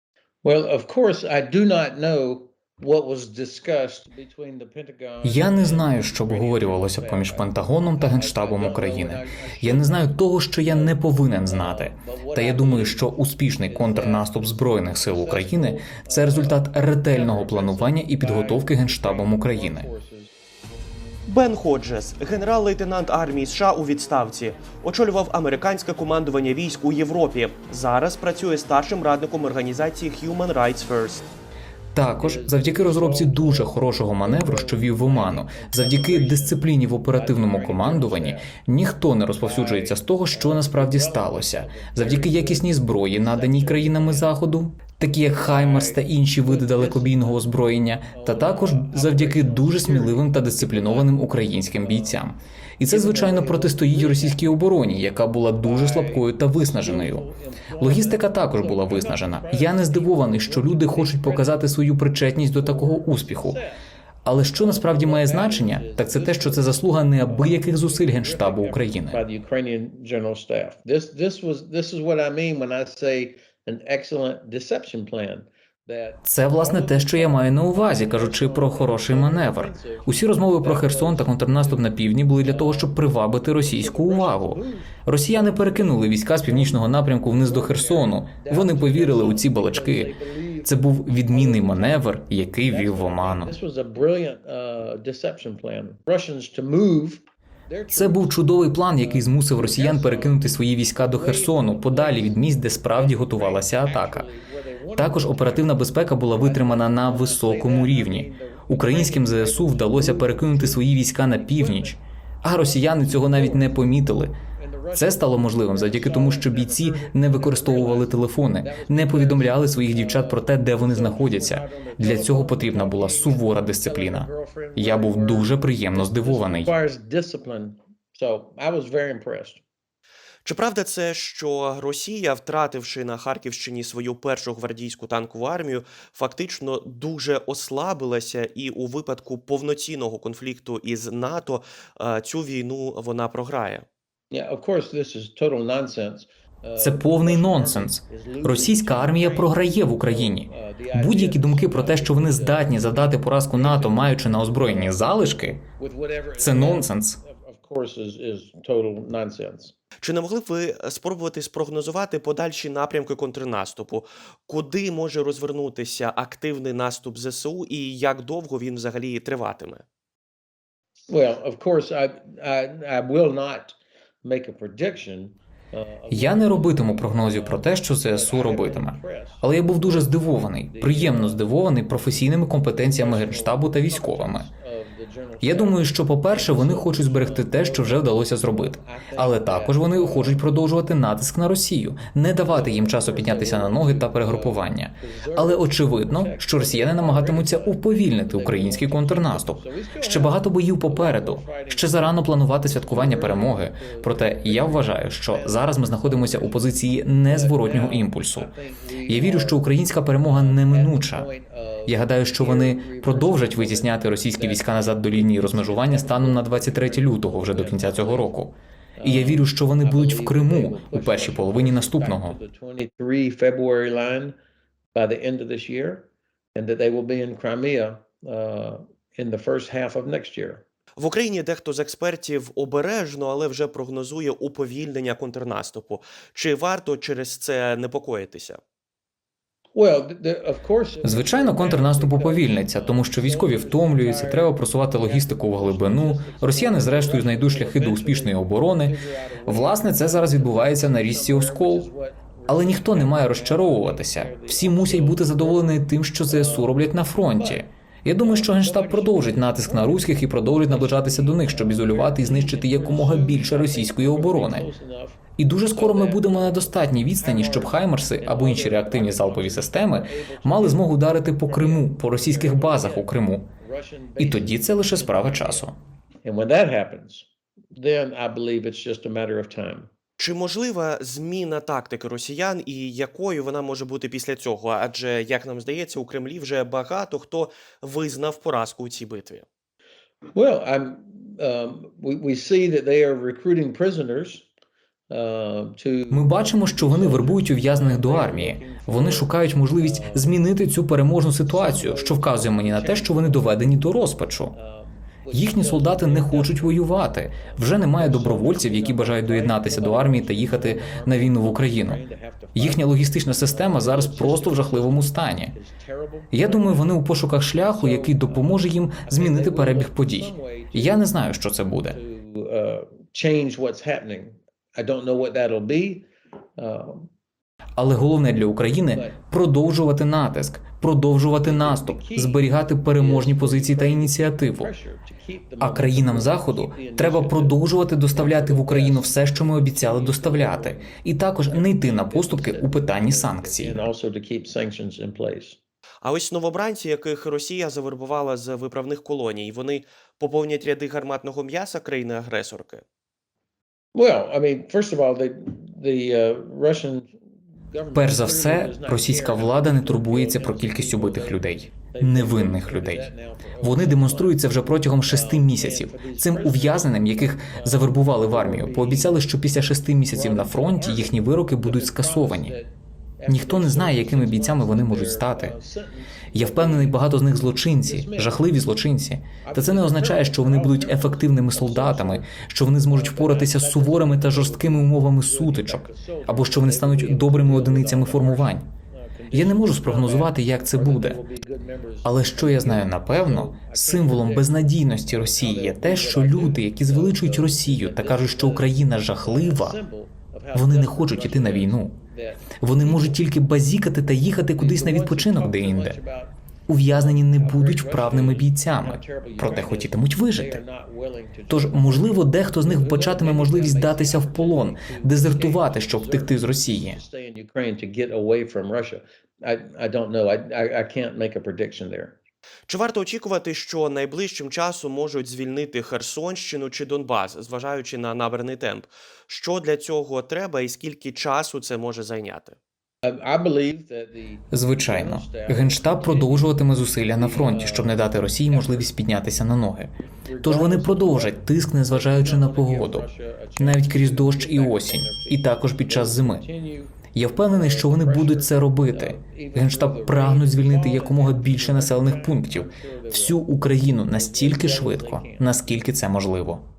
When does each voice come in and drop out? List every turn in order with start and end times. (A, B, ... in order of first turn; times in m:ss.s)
0:00.4-0:20.3 A
0:05.2-0:19.9 B
0:21.2-0:31.2 C
0:31.9-0:57.2 B
0:32.1-0:38.6 A
0:39.4-0:44.4 A
0:45.3-0:47.5 A
0:48.1-0:52.2 A
0:52.9-0:54.5 A
0:55.6-1:01.7 A
0:57.8-1:03.6 B
1:02.5-1:03.8 A
1:04.2-1:09.2 B
1:04.6-1:52.0 A
1:16.2-1:30.1 B
1:30.6-1:33.5 B
1:37.9-1:44.3 B
1:44.9-1:54.3 B
1:52.5-2:09.6 A
1:54.9-2:06.7 B
2:10.4-2:23.8 C
2:24.3-2:35.1 A
2:26.8-2:35.6 B
2:35.6-2:39.7 A
2:36.4-2:37.2 B
2:40.0-2:49.8 C
2:51.1-3:01.5 A
2:56.1-3:04.5 B
3:02.8-3:10.6 A
3:05.4-3:31.3 B
3:12.4-3:38.4 A
3:31.8-3:42.4 B
3:39.0-3:44.3 A
3:44.9-3:50.6 A
3:51.0-3:58.6 C
3:59.7-4:15.8 A
4:01.0-4:11.9 B
4:12.5-4:24.6 B
4:16.3-4:35.7 A
4:25.4-4:33.4 B
4:34.2-4:35.7 B
4:36.2-4:39.9 A
4:40.2-4:49.4 C
4:50.3-4:54.5 A
4:55.1-5:00.5 A
4:56.1-5:04.5 B
5:01.4-5:21.2 A
5:05.3-5:12.0 B
5:12.5-5:15.5 B
5:16.3-5:22.0 B
5:21.8-5:27.1 A
5:27.8-5:34.7 B
5:28.9-5:29.2 A
5:31.4-5:45.6 A
5:35.6-5:43.9 B
5:46.0-5:52.8 C
5:53.9-5:57.1 A
5:57.6-6:09.3 A
5:57.9-6:12.5 B
6:10.1-6:17.1 A
6:13.3-6:15.6 B
6:16.3-6:28.7 B
6:17.8-6:18.5 A
6:19.4-6:43.2 A
6:29.3-6:31.2 B
6:32.0-6:39.8 B
6:40.5-6:42.0 B
6:42.6-6:46.0 B
6:44.6-6:46.4 A
6:46.7-6:50.6 B
6:46.9-7:02.2 A
6:51.5-6:57.0 B
7:02.7-7:12.6 C
7:13.0-7:18.9 A
7:14.5-7:23.0 B
7:20.2-7:33.5 A
7:23.6-7:26.4 B
7:27.1-7:36.6 B
7:34.1-7:35.8 A